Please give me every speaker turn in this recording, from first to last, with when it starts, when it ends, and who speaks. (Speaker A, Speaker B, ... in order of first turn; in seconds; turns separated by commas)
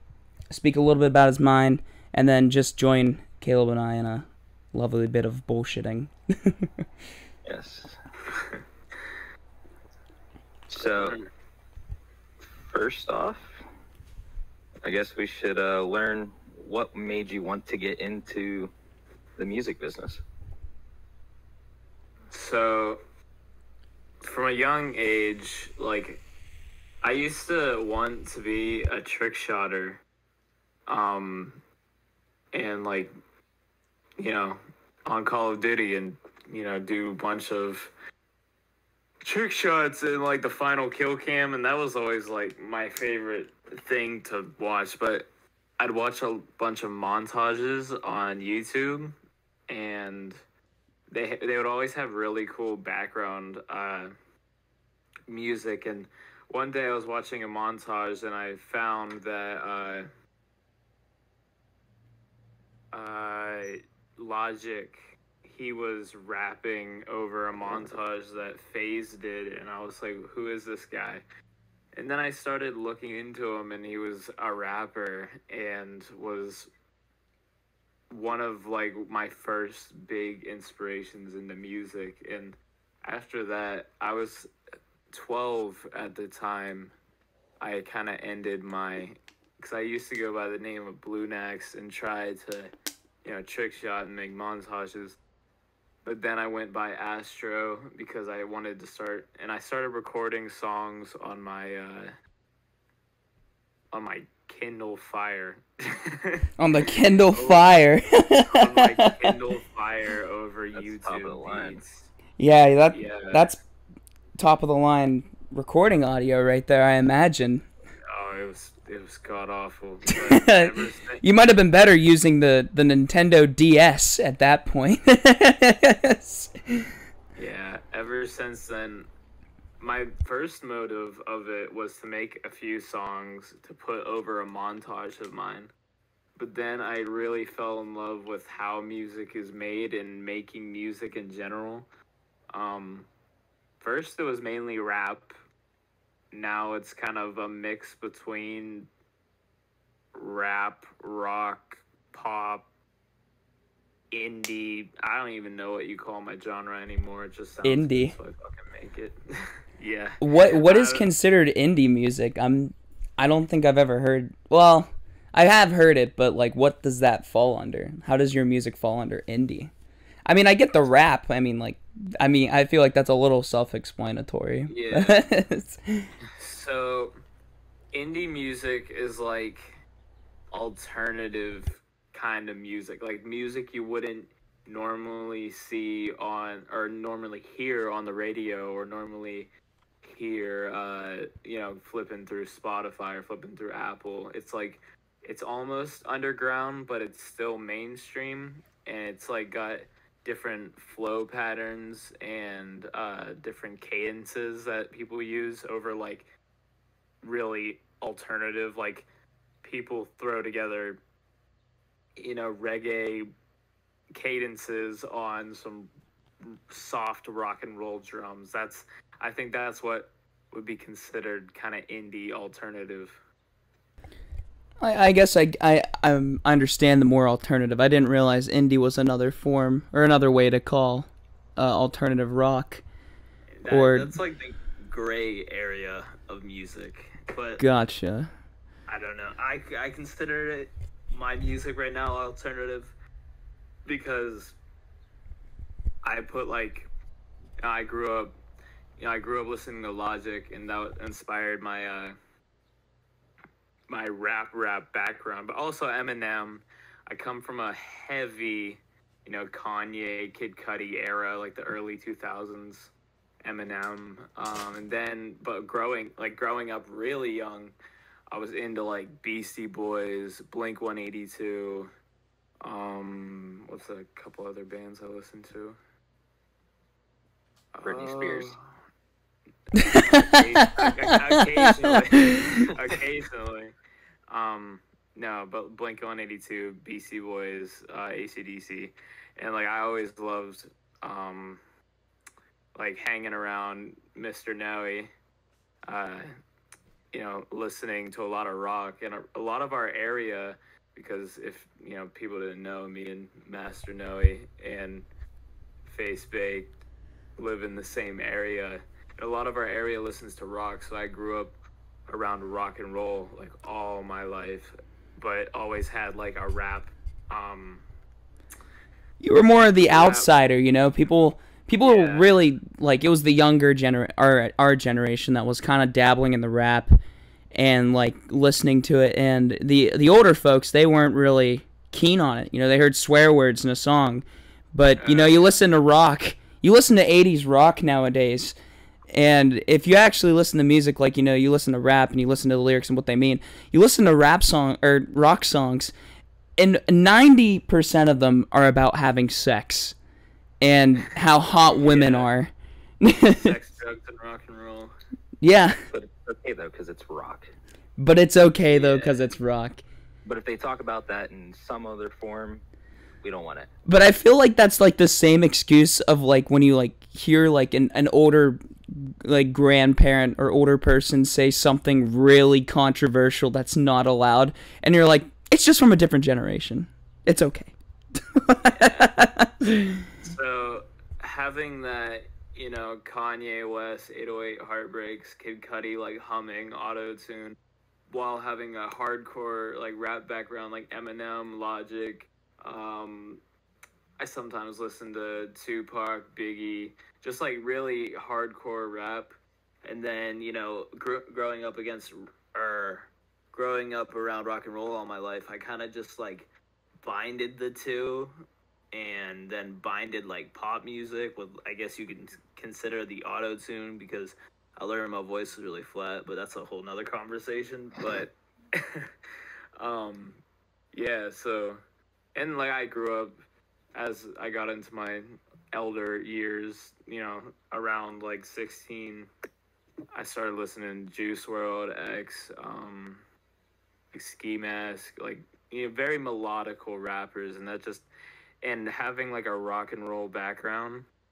Speaker A: 0.5-6.7, Speaker B: 7.5-8.0, Speaker C: 8.3-8.6, Speaker B: 10.7-11.2, Speaker C: 10.9-11.2, Speaker B: 12.7-13.6, Speaker B: 14.8-18.7, Speaker B: 19.4-20.2, Speaker C: 22.3-23.0, Speaker C: 24.2-26.2, Speaker C: 27.0-30.0, Speaker C: 30.9-31.6, Speaker C: 32.5-33.1, Speaker C: 34.2-37.9, Speaker C: 39.2-45.3, Speaker C: 45.8-49.2, Speaker C: 49.7-50.4, Speaker C: 51.1-54.1, Speaker C: 55.3-60.1, Speaker C: 62.9-71.2, Speaker C: 71.9-76.7, Speaker C: 78.1-84.5, Speaker C: 85.1-86.9, Speaker C: 87.6-92.7, Speaker C: 93.2-95.2, Speaker C: 96.0-102.1, Speaker C: 103.9-106.5, Speaker A: 106.6-109.3, Speaker C: 107.3-107.6, Speaker C: 108.5-112.1, Speaker B: 110.7-111.8, Speaker A: 112.4-113.6, Speaker C: 112.9-113.4, Speaker A: 114.4-117.6, Speaker C: 118.1-121.2, Speaker A: 120.1-126.9, Speaker C: 127.3-129.1, Speaker C: 129.8-135.7, Speaker C: 136.3-141.9, Speaker C: 142.5-143.1, Speaker C: 143.8-145.4, Speaker C: 146.3-148.9, Speaker C: 150.1-152.7, Speaker C: 154.1-161.1, Speaker A: 157.6-158.1, Speaker A: 160.2-169.7, Speaker A: 170.2-176.1, Speaker C: 174.7-175.2, Speaker C: 176.3-177.1, Speaker C: 177.9-179.8, Speaker C: 180.5-189.5, Speaker C: 190.0-206.3, Speaker C: 207.2-209.1, Speaker C: 209.6-211.0, Speaker C: 212.2-213.3, Speaker C: 214.1-223.2, Speaker A: 224.8-232.8, Speaker C: 233.5-237.6, Speaker A: 233.7-234.1, Speaker A: 237.6-238.3, Speaker C: 238.9-242.9, Speaker C: 243.8-244.6, Speaker C: 246.0-246.9, Speaker C: 247.6-248.3, Speaker C: 249.0-252.1, Speaker C: 253.9-262.9, Speaker C: 263.4-267.7, Speaker C: 268.3-271.9, Speaker C: 272.6-275.8, Speaker C: 277.7-278.7, Speaker B: 277.8-278.5, Speaker A: 279.8-282.7, Speaker C: 279.8-283.7, Speaker C: 284.3-291.6, Speaker C: 292.7-295.1, Speaker C: 295.8-296.3, Speaker C: 297.1-305.1, Speaker C: 305.8-306.8, Speaker C: 307.4-311.5, Speaker C: 312.1-317.8, Speaker A: 319.2-327.0, Speaker C: 319.9-320.3, Speaker C: 321.8-322.3, Speaker A: 327.5-338.6, Speaker B: 335.0-335.5, Speaker A: 339.1-345.9, Speaker A: 346.6-349.9, Speaker A: 350.6-353.6, Speaker C: 351.6-352.3, Speaker C: 353.2-354.9, Speaker A: 355.4-355.8, Speaker B: 355.9-357.5, Speaker A: 358.0-359.8, Speaker C: 358.7-359.3, Speaker B: 360.2-362.6, Speaker B: 363.2-363.7, Speaker A: 363.9-380.0, Speaker C: 378.7-387.6, Speaker C: 388.1-393.4, Speaker C: 394.2-399.3, Speaker C: 399.8-406.5, Speaker C: 407.0-419.1, Speaker C: 419.8-420.4, Speaker C: 420.9-421.8, Speaker C: 422.3-423.4, Speaker C: 423.9-429.3, Speaker C: 430.1-433.2, Speaker C: 434.1-438.1, Speaker C: 438.6-441.1